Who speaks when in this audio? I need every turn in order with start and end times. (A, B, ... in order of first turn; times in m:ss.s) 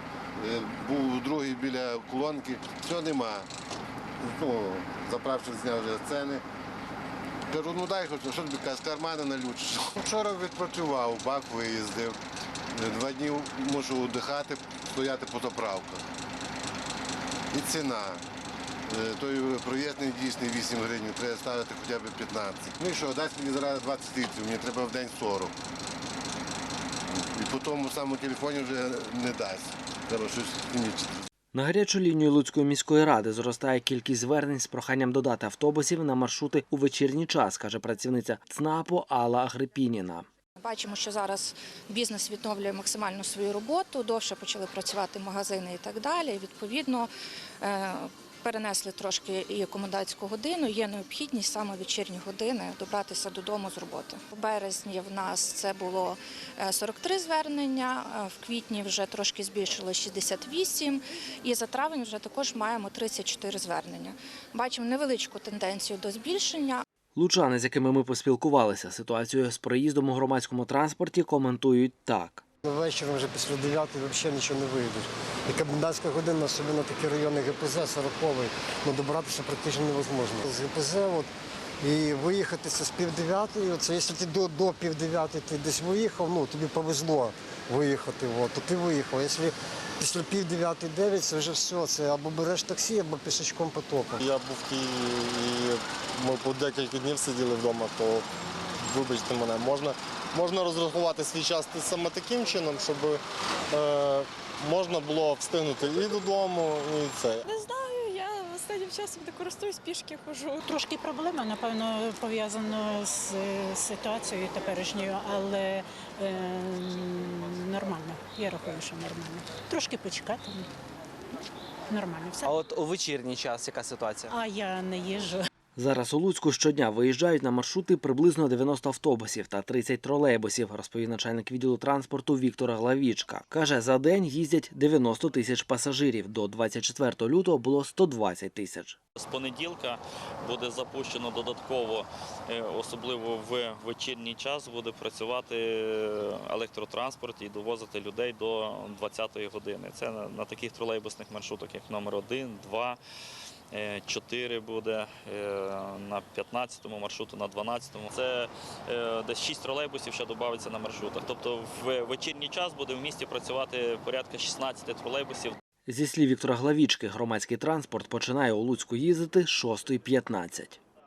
0:00.4-0:03.5 A
0:04.2-0:06.4 A
0:07.5-0:12.2 A
0:12.7-0:16.0 A
0:17.5-0:18.2 A
0:18.9-0:25.5 A
0:27.2-0:31.2 A
0:31.5-0:40.2 B
0:40.6-0:47.1 C
0:47.6-1:06.8 C
1:07.2-1:12.4 B
1:12.6-1:21.3 D
1:21.8-1:34.2 D
1:34.2-1:38.2 E
1:38.8-1:47.4 E
1:47.4-1:50.6 F
1:50.6-2:00.7 G
2:01.9-2:02.5 G
2:02.5-2:04.1 B
2:04.3-2:05.4 G
2:05.8-2:19.0 B
2:19.2-2:33.0 H
2:33.7-2:45.6 H
2:45.9-2:50.8 B